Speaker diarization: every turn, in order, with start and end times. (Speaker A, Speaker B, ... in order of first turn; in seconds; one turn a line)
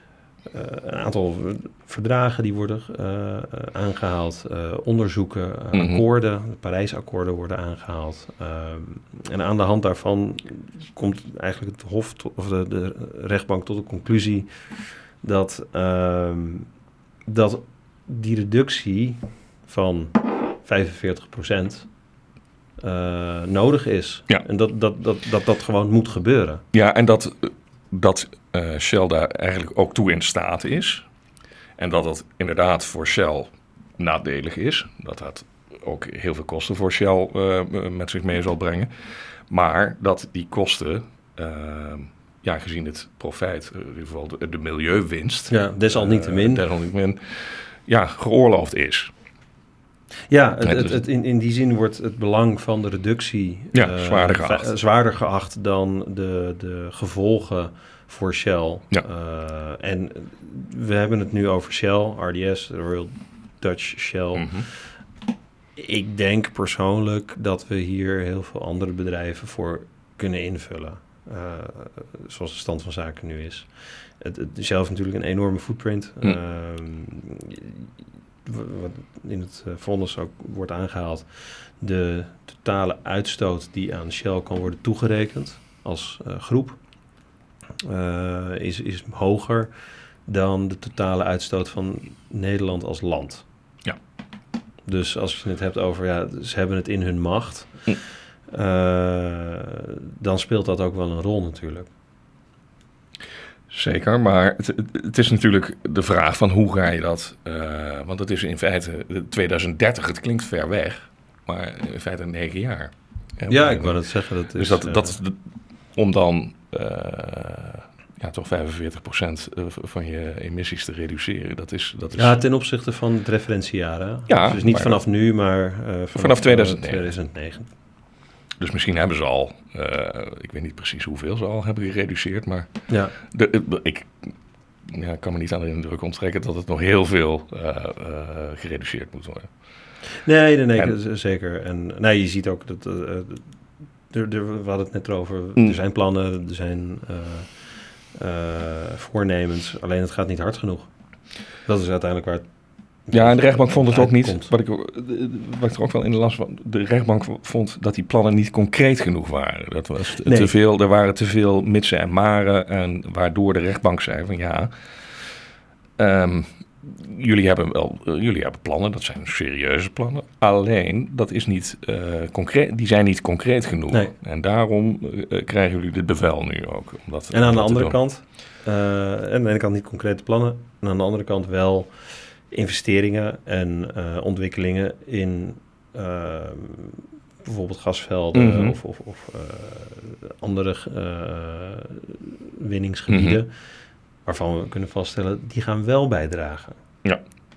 Speaker A: 0.5-16.7
Speaker B: 5.7-6.0
Speaker A: 17.3-21.9
Speaker A: 22.8-26.6
Speaker B: 26.7-31.1
Speaker B: 31.8-49.1
Speaker A: 45.5-46.6
Speaker A: 50.3-64.9
Speaker B: 50.6-51.0
Speaker B: 53.7-54.7
Speaker B: 64.4-64.7
Speaker A: 65.8-77.9
Speaker A: 78.5-86.8
Speaker A: 87.8-89.7
Speaker A: 90.2-93.5
Speaker A: 94.9-97.9
Speaker A: 98.5-101.9
Speaker B: 103.7-114.0
Speaker A: 113.5-115.2
Speaker B: 114.5-115.4
Speaker B: 116.0-122.4
Speaker A: 122.2-127.7
Speaker B: 124.3-125.0
Speaker B: 126.2-127.1
Speaker B: 128.6-132.7
Speaker A: 132.9-133.2
Speaker B: 133.2-134.3
Speaker B: 134.8-139.5
Speaker A: 140.2-143.4
Speaker A: 144.1-150.9
Speaker A: 151.6-152.4
Speaker A: 153.1-154.5
Speaker B: 153.1-164.7
Speaker A: 160.2-160.5
Speaker B: 166.0-178.0
Speaker A: 177.3-193.5
Speaker B: 188.3-188.8
Speaker B: 193.1-193.4
Speaker A: 194.3-196.8